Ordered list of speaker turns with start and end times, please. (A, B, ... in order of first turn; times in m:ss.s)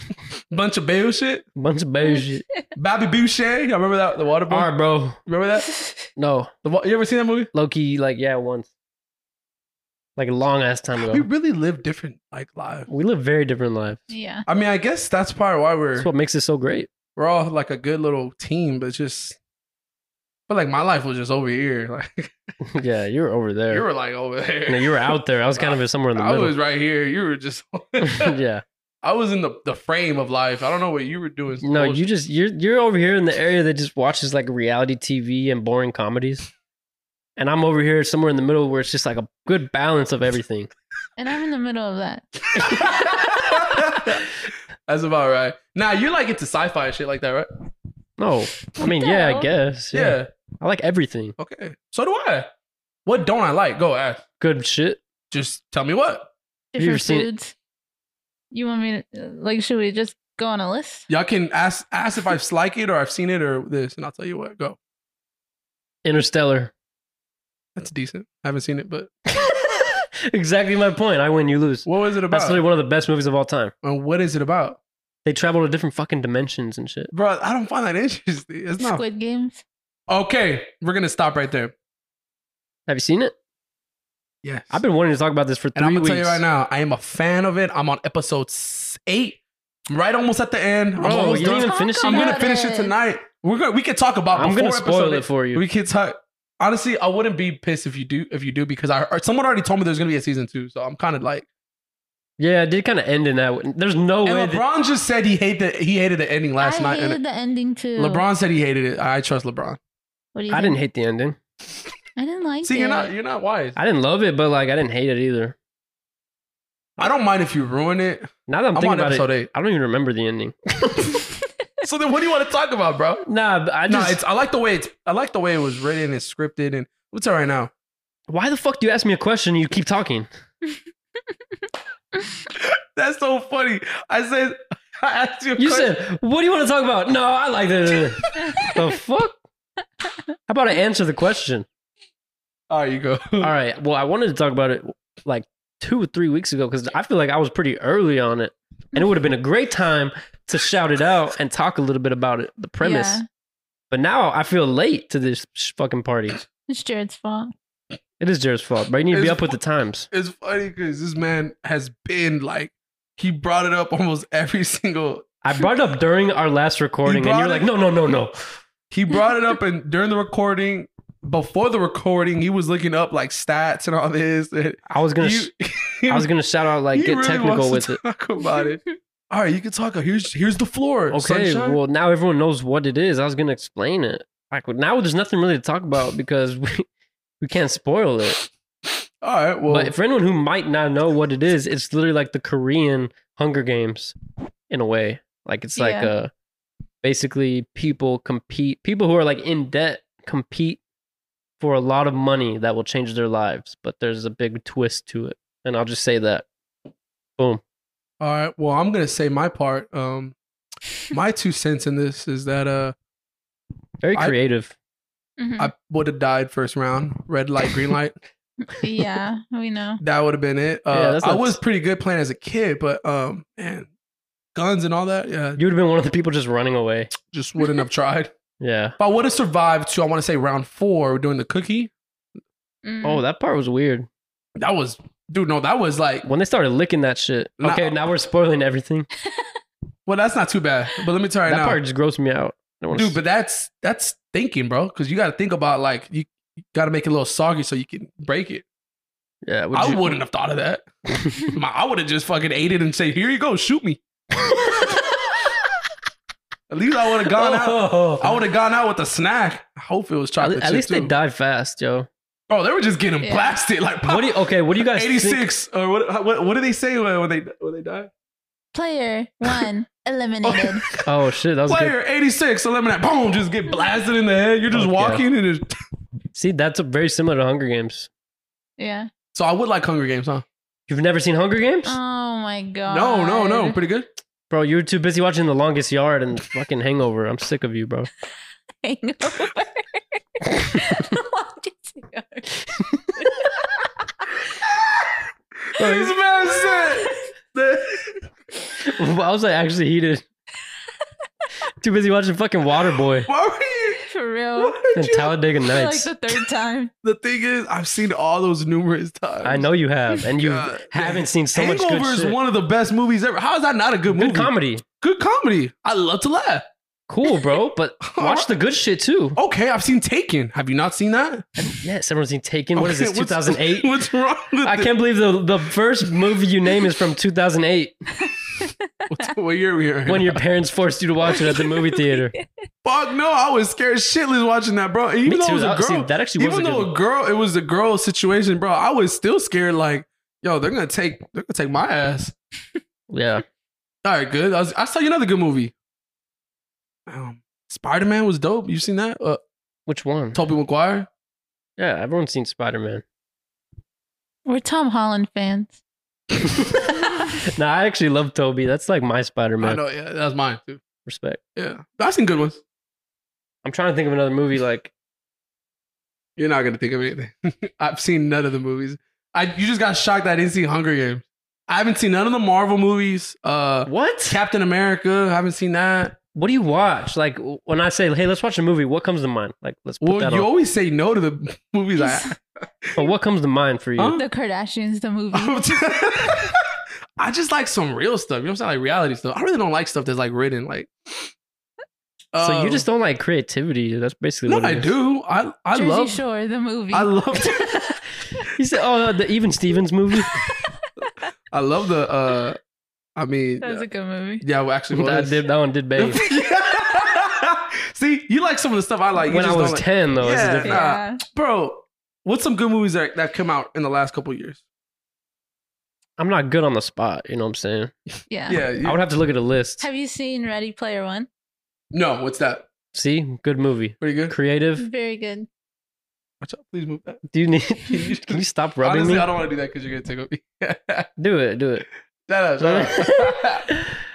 0:00.5-0:01.4 A
0:01.6-0:02.4 B
0:02.0-0:02.3 C
0:02.8-0:04.7 A
0:04.5-0:05.2 B
0:05.2-0:05.7 A
0:06.2-0:06.5 B
0:06.6-0:07.5 A
0:07.5-0:08.7 B
0:10.2-0:11.2 B
0:11.0-0:12.9 A
0:12.9-0:14.0 B
0:14.1-0:14.4 C
0:14.4-0:16.1 A
0:16.0-0:16.9 B
0:17.2-0:19.4 A
0:20.5-0:22.4 A
0:22.6-0:23.8 B
0:23.7-0:28.3 A
0:24.7-0:26.5 B
0:28.0-0:28.6 B
0:29.0-0:32.0 A
0:31.6-0:36.4 B
0:37.4-0:40.7 B
0:41.2-0:42.2 C
0:42.5-0:44.3 A
0:42.6-0:44.2 B
0:44.9-0:47.5 A
0:48.2-0:51.4 B
0:48.8-0:49.5 C
0:49.9-0:50.3 A
0:51.4-0:52.5 A
0:53.0-0:54.2 A
0:54.4-0:55.0 B
0:55.3-0:56.3 A
0:56.7-0:57.5 C
0:56.8-0:57.3 B
0:58.5-1:01.1 C
1:01.1-1:04.8 A
1:06.0-1:06.7 B
1:07.8-1:09.1 A
1:09.3-1:13.7 B
1:11.8-1:12.6 A
1:13.8-1:14.8 A
1:15.2-1:17.1 B
1:17.1-1:19.0 A
1:18.8-1:19.6 C
1:20.1-1:21.7 A
1:22.9-1:23.3 B
1:24.4-1:24.8 A
1:24.7-1:26.4 B
1:25.7-1:41.4 A
1:31.0-1:32.4 B
1:31.0-1:32.9 C
1:34.3-1:35.6 B
1:42.4-1:44.6 B
1:44.2-1:47.2 A
1:46.6-1:48.2 C
1:48.0-1:49.8 A
1:50.3-1:50.8 C
1:50.5-1:51.4 B
1:52.2-1:53.1 C
1:52.6-1:53.8 A
1:53.8-1:55.6 B
1:57.0-1:59.5 A
1:58.5-2:01.2 B
2:01.8-2:03.2 A
2:03.2-2:04.2 B
2:03.9-2:07.7 A
2:08.3-2:10.3 B
2:12.5-2:15.9 A
2:15.6-2:19.4 B
2:18.2-2:18.7 A
2:20.5-2:21.7 B
2:22.7-2:23.5 A
2:23.4-2:33.2 B
2:32.8-2:33.2 C
2:33.9-2:36.4 B
2:36.7-2:37.5 C
2:38.2-2:40.1 B
2:39.1-2:39.5 A
2:40.1-2:45.3 A
2:45.4-2:48.6 B
2:47.0-2:47.7 A
2:48.9-2:56.3 A
2:54.9-2:55.5 B
2:56.1-2:58.0 B
2:56.9-3:01.8 A
2:58.4-2:58.7 C
3:01.1-3:06.9 B
3:07.4-3:08.4 B
3:09.2-3:09.9 A
3:09.7-3:14.1 B
3:14.7-3:16.3 B
3:15.8-3:16.1 C
3:17.0-3:20.8 B
3:21.6-3:26.4 B
3:28.2-3:30.4 A
3:31.1-3:32.9 A
3:34.0-3:34.7 B
3:35.4-3:35.7 C
3:35.6-3:38.2 A
3:38.7-3:40.0 C
3:40.0-3:43.9 A
3:40.9-3:41.6 B
3:44.5-3:45.6 A
3:45.6-3:47.1 B
3:47.3-3:48.3 A
3:48.6-3:49.0 B
3:49.0-3:51.9 A
3:52.8-3:53.2 C
3:53.0-3:54.1 B
3:54.6-3:56.2 A
3:56.2-3:59.1 B
3:57.6-3:57.9 A
4:00.1-4:01.8 A
4:01.5-4:03.2 B
4:02.9-4:08.6 A
4:09.4-4:10.1 B
4:09.7-4:10.9 A
4:11.4-4:14.0 A
4:14.3-4:15.5 B
4:16.7-4:21.1 A
4:17.4-4:18.4 B
4:20.4-4:22.1 B
4:22.5-4:28.1 A
4:23.2-4:23.6 C
4:24.0-4:25.4 B
4:28.7-4:30.9 C
4:30.4-4:31.0 A
4:31.0-4:31.9 B
4:31.6-4:35.7 A
4:34.7-4:35.2 B
4:36.3-4:38.1 B
4:38.8-4:39.1 C
4:39.3-4:40.4 A
4:40.9-4:42.0 B
4:41.8-4:43.8 C
4:42.9-4:44.1 A
4:44.5-4:48.1 B
4:48.8-4:53.7 C
4:52.7-4:53.2 B
4:54.6-4:55.1 A
4:55.7-4:58.1 A
4:55.8-4:56.1 B
4:56.4-4:57.2 C
4:58.8-5:00.2 B
5:01.8-5:03.3 B
5:03.2-5:04.0 A
5:04.0-5:05.0 C
5:04.6-5:05.3 A
5:04.9-5:06.1 B
5:05.6-5:06.9 C
5:07.0-5:09.7 A
5:09.4-5:12.4 B
5:10.4-5:16.7 A
5:14.1-5:14.8 B
5:17.1-5:19.4 B
5:18.1-5:18.5 A
5:19.4-5:21.7 A
5:21.6-5:23.9 B
5:22.7-5:24.9 A
5:24.6-5:28.0 B
5:28.3-5:28.9 C
5:29.1-5:30.4 A
5:30.1-5:32.4 B
5:31.4-5:32.4 C
5:32.8-5:42.4 A
5:35.2-5:36.9 B
5:43.1-5:43.4 B
5:44.0-5:45.7 A
5:47.1-5:49.4 A
5:49.9-5:50.4 B
5:50.3-5:51.1 A
5:51.8-5:53.0 B
5:54.4-5:55.8 C
5:56.4-5:56.9 B
5:56.9-5:57.4 C
5:57.5-5:59.8 B
5:59.6-6:00.8 A
6:01.0-6:01.4 B
6:01.6-6:02.6 A
6:03.6-6:04.9 B
6:06.4-6:16.2 A
6:13.8-6:14.4 B
6:16.3-6:20.5 B
6:20.0-6:23.0 A
6:22.0-6:22.3 C
6:23.0-6:24.2 B
6:24.0-6:24.2 A
6:24.1-6:26.1 C
6:25.3-6:26.6 A
6:27.2-6:31.3 A
6:32.3-6:32.8 A
6:32.4-6:34.9 B
6:34.5-6:36.2 A
6:35.7-6:37.9 C
6:36.9-6:37.7 A
6:38.6-6:40.4 B
6:40.3-6:40.8 C
6:41.5-6:42.6 A
6:43.2-6:43.8 A
6:43.6-6:44.4 C
6:44.4-6:45.4 A
6:44.9-6:46.2 B
6:46.0-6:54.6 A
6:49.3-6:50.8 B
6:50.6-6:51.2 C
6:56.2-6:57.9 B
6:58.3-6:58.6 C
6:58.5-6:59.0 A
6:58.8-6:59.8 B
6:59.8-7:01.3 C
7:01.9-7:02.7 A
7:02.9-7:04.8 B
7:04.0-7:04.3 A
7:04.8-7:05.5 C
7:06.4-7:07.2 A
7:07.3-7:09.3 B
7:07.9-7:11.1 A
7:11.2-7:11.8 B
7:12.3-7:13.7 A
7:12.6-7:13.8 B